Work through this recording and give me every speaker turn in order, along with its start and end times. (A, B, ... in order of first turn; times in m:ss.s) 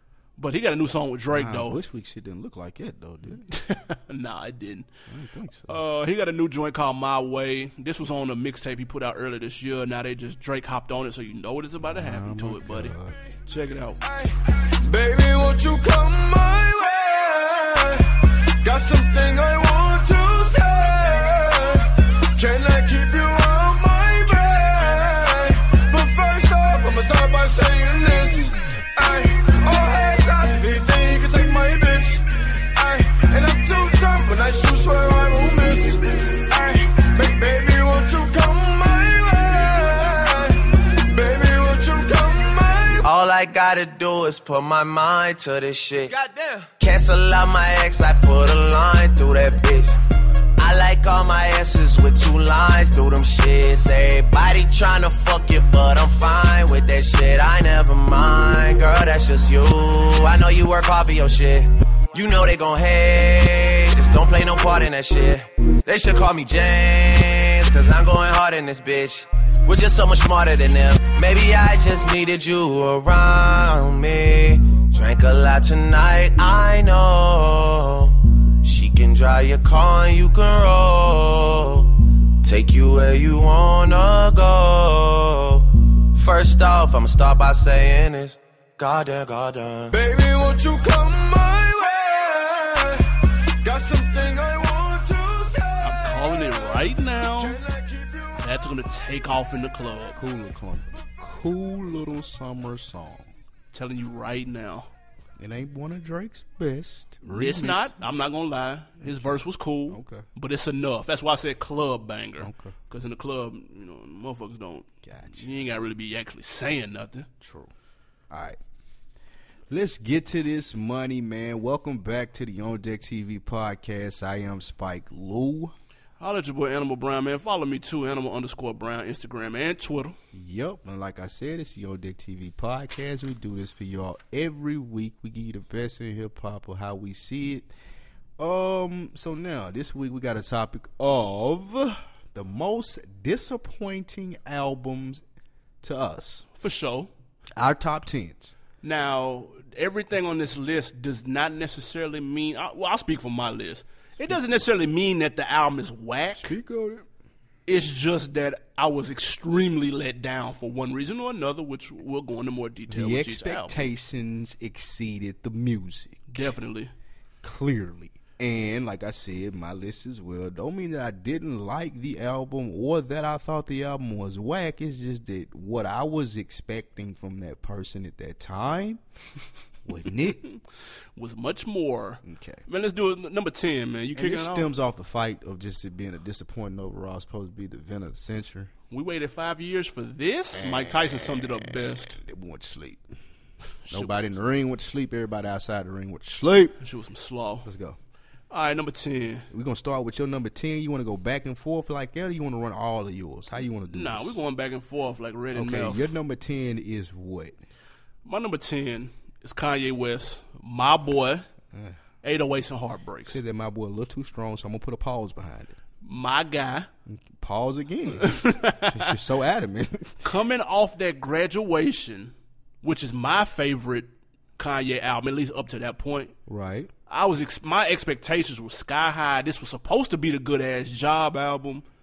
0:00.4-0:01.8 A
0:01.3-0:03.4 B
0:03.5-0:04.9 A
0:05.1-0:05.8 B
0:05.7-0:12.9 A
0:11.8-0:13.2 B
0:13.5-0:14.0 A
0:14.0-0:43.1 C
0:43.0-0:46.1 D
0:46.1-0:46.7 C
0:46.8-0:50.0 D
0:50.6-1:30.0 D
1:29.9-1:38.6 C
1:35.8-1:37.6 A
1:38.4-1:40.2 A
1:40.1-1:43.3 B
1:43.7-1:44.9 A
1:45.4-1:48.2 B
1:47.2-1:57.3 A
1:49.0-1:50.2 B
1:52.4-1:52.7 B
1:55.0-1:55.5 B
1:57.4-1:57.7 B
1:58.3-1:58.6 B
1:59.7-2:05.7 B
2:06.2-2:10.2 A
2:10.3-2:17.7 B
2:18.4-2:25.2 B
2:25.8-2:26.4 B
2:26.5-2:27.1 A
2:27.6-2:28.5 B
2:28.8-2:36.6 A
2:36.3-2:37.1 B
2:37.6-2:43.9 A
2:42.9-2:46.5 B
2:46.3-2:46.9 A
2:47.4-2:59.0 B
2:59.8-3:00.4 B
3:01.2-3:04.7 A
3:02.2-3:02.6 B
3:04.1-3:08.7 B
3:08.9-3:12.2 A
3:10.5-3:13.0 B
3:13.8-3:14.3 A
3:13.9-3:16.8 B
3:16.8-3:17.7 A
3:17.6-3:18.0 B
3:18.5-3:19.5 A
3:19.5-3:24.4 B
3:23.9-3:26.1 A
3:25.5-3:27.6 B
3:28.2-3:31.4 A
3:31.7-3:32.0 B
3:32.2-3:33.4 A
3:33.3-3:35.7 B
3:36.0-3:36.9 A
3:37.0-3:40.3 B
3:38.2-3:39.2 A
3:40.2-3:46.3 A
3:46.5-3:46.9 B
3:47.1-3:51.8 A